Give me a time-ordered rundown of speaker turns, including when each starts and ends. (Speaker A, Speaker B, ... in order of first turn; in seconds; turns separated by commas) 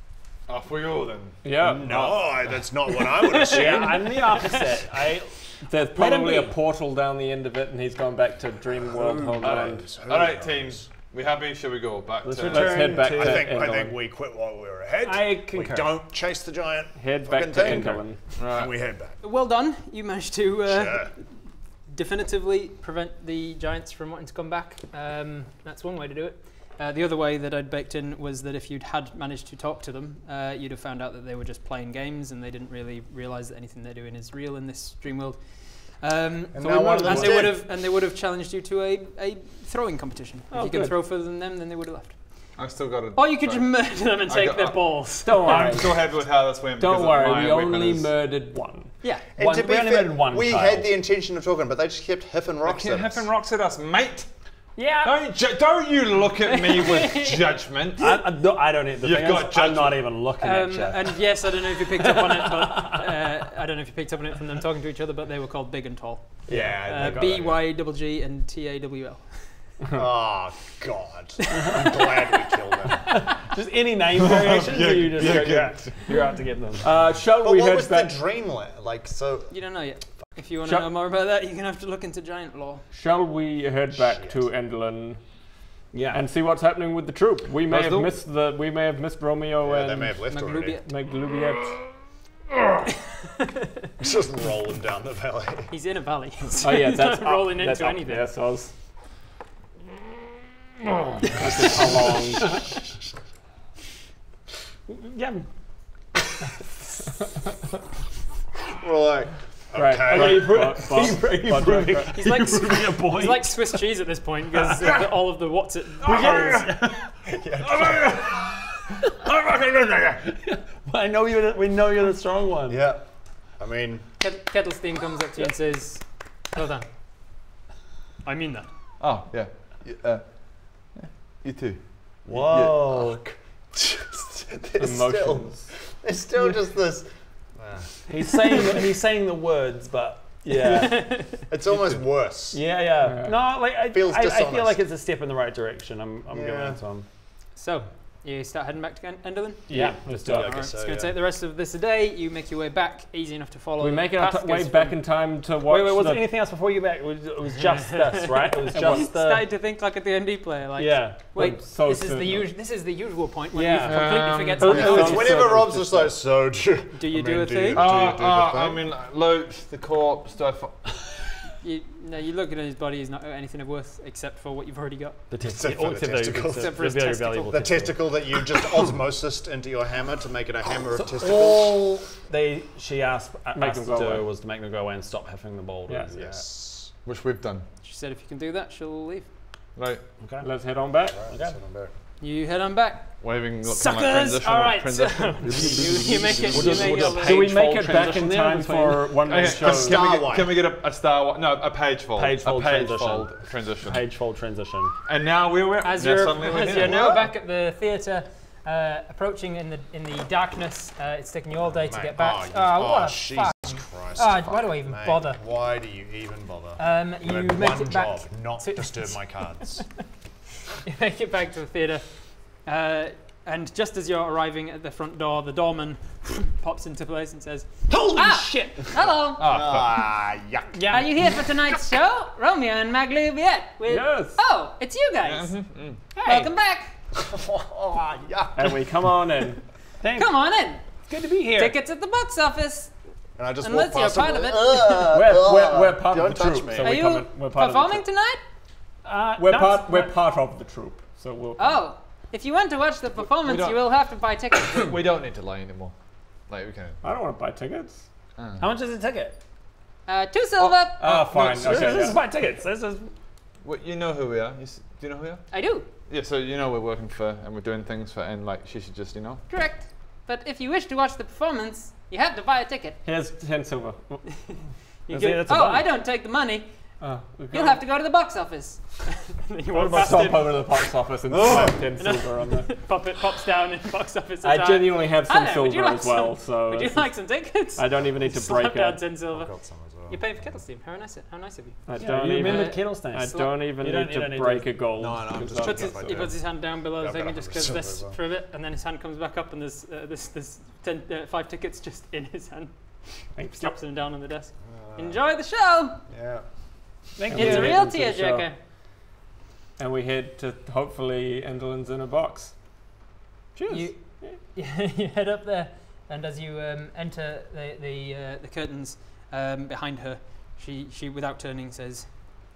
Speaker A: 0.5-1.4, Speaker B: 1.4-2.5, Speaker C: 1.6-4.2, Speaker D: 2.9-5.1, Speaker E: 3.5-6.5, Speaker B: 5.6-9.9, Speaker C: 8.7-10.9, Speaker A: 9.4-12.9, Speaker E: 12.2-13.7, Speaker B: 12.4-14.0, Speaker C: 12.5-19.2, Speaker E: 15.0-15.9, Speaker B: 16.9-18.2, Speaker E: 17.6-18.0, Speaker A: 18.3-18.8, Speaker D: 19.2-45.7, Speaker C: 20.6-21.1, Speaker C: 36.5-37.6, Speaker B: 36.9-37.3, Speaker B: 40.5-40.9, Speaker A: 42.5-48.1, Speaker B: 45.2-48.9, Speaker C: 49.3-53.3, Speaker E: 49.4-50.9, Speaker A: 52.6-54.3, Speaker E: 54.8-55.1, Speaker A: 55.0-60.1, Speaker D: 56.4-57.6, Speaker E: 58.0-61.2, Speaker D: 60.4-69.6, Speaker E: 62.1-63.0, Speaker E: 66.5-67.4, Speaker C: 66.5-67.6, Speaker C: 69.9-73.2, Speaker D: 71.6-72.1, Speaker E: 73.2-76.9, Speaker A: 74.4-76.0, Speaker B: 76.8-78.2, Speaker C: 77.4-79.5, Speaker D: 79.5-82.8, Speaker B: 80.6-80.9, Speaker B: 82.9-85.2, Speaker C: 83.9-84.5, Speaker E: 85.9-86.3, Speaker B: 86.1-91.8, Speaker E: 87.7-88.0, Speaker C: 89.6-90.8, Speaker D: 90.3-90.8, Speaker C: 94.0-95.7, Speaker D: 95.7-98.3, Speaker B: 96.6-98.7, Speaker B: 101.2-102.8, Speaker E: 104.9-105.5, Speaker C: 108.7-111.2, Speaker B: 109.7-112.2, Speaker E: 110.0-113.8, Speaker D: 112.1-116.8, Speaker E: 114.6-115.1, Speaker E: 116.0-118.6, Speaker C: 117.2-118.3, Speaker E: 119.2-122.8, Speaker C: 122.7-124.1, Speaker D: 124.2-126.9, Speaker D: 128.2-128.7, Speaker A: 129.0-133.2, Speaker C: 132.2-137.9, Speaker B: 134.8-135.8, Speaker E: 138.1-141.5, Speaker D: 140.6-141.3, Speaker C: 141.5-142.6, Speaker E: 142.5-147.1, Speaker B: 143.0-143.7, Speaker C: 143.6-144.8, Speaker C: 146.3-146.8, Speaker D: 147.5-155.0, Speaker E: 149.7-150.5, Speaker B: 149.7-150.5, Speaker C: 150.1-151.1, Speaker B: 153.8-156.3, Speaker E: 155.6-159.5, Speaker B: 158.7-159.1, Speaker D: 158.7-165.3, Speaker E: 160.8-161.2, Speaker B: 161.3-162.5, Speaker E: 163.5-165.6, Speaker B: 163.7-166.2, Speaker C: 164.7-168.8, Speaker D: 166.9-167.8, Speaker A: 167.7-171.0, Speaker D: 171.6-175.2, Speaker E: 175.3-178.2, Speaker C: 175.4-182.0, Speaker D: 176.4-177.9, Speaker E: 180.9-186.4, Speaker B: 183.5-184.3, Speaker C: 186.1-186.9, Speaker A: 187.0-187.7, Speaker D: 187.8-189.3, Speaker A: 189.8-190.0, Speaker E: 190.2-190.5, Speaker B: 190.4-191.3, Speaker C: 191.1-191.9, Speaker E: 191.3-191.6, Speaker D: 192.2-197.5, Speaker A: 193.2-196.8, Speaker E: 195.7-199.3, Speaker B: 196.7-200.2, Speaker A: 199.2-204.1, Speaker C: 199.5-200.6, Speaker E: 202.2-204.9, Speaker A: 205.1-207.2, Speaker D: 205.8-215.4, Speaker C: 211.7-219.9, Speaker D: 216.8-219.8, Speaker D: 220.8-229.5, Speaker E: 227.9-228.9, Speaker A: 229.4-230.1, Speaker C: 229.4-231.4, Speaker D: 230.8-235.6, Speaker B: 233.9-234.4, Speaker A: 235.2-236.0, Speaker E: 236.2-236.5, Speaker D: 236.2-236.9, Speaker C: 237.1-238.9, Speaker B: 238.6-239.6, Speaker E: 240.0-240.4, Speaker D: 240.1-240.8, Speaker E: 241.1-241.8, Speaker D: 241.5-242.9, Speaker C: 243.4-247.0, Speaker D: 243.6-245.1, Speaker B: 245.1-248.0, Speaker D: 246.8-248.4, Speaker E: 249.0-250.2, Speaker B: 249.3-251.8, Speaker D: 251.6-254.9, Speaker A: 253.4-253.8, Speaker A: 254.7-255.9, Speaker A: 256.4-257.0, Speaker B: 257.0-258.1, Speaker A: 258.4-258.7, Speaker E: 258.6-259.4, Speaker D: 260.1-261.0, Speaker B: 261.0-262.2, Speaker E: 261.0-263.1, Speaker A: 261.4-262.1, Speaker A: 263.6-269.4, Speaker D: 265.5-265.9, Speaker D: 269.5-273.0, Speaker B: 273.0-274.6, Speaker D: 275.1-289.5, Speaker E: 275.1-275.9, Speaker B: 277.0-277.8, Speaker B: 279.7-282.7, Speaker E: 279.9-280.3, Speaker E: 281.3-282.0, Speaker B: 284.4-289.1, Speaker C: 288.0-288.5, Speaker C: 289.3-290.6, Speaker D: 290.1-292.8, Speaker B: 291.9-296.3, Speaker E: 292.0-294.8, Speaker C: 295.0-298.2, Speaker D: 295.6-306.0, Speaker B: 303.3-303.8, Speaker C: 304.6-305.2, Speaker C: 306.1-306.4, Speaker E: 307.1-308.0, Speaker B: 307.3-308.4, Speaker D: 307.3-308.6, Speaker B: 309.8-312.6, Speaker D: 313.7-322.1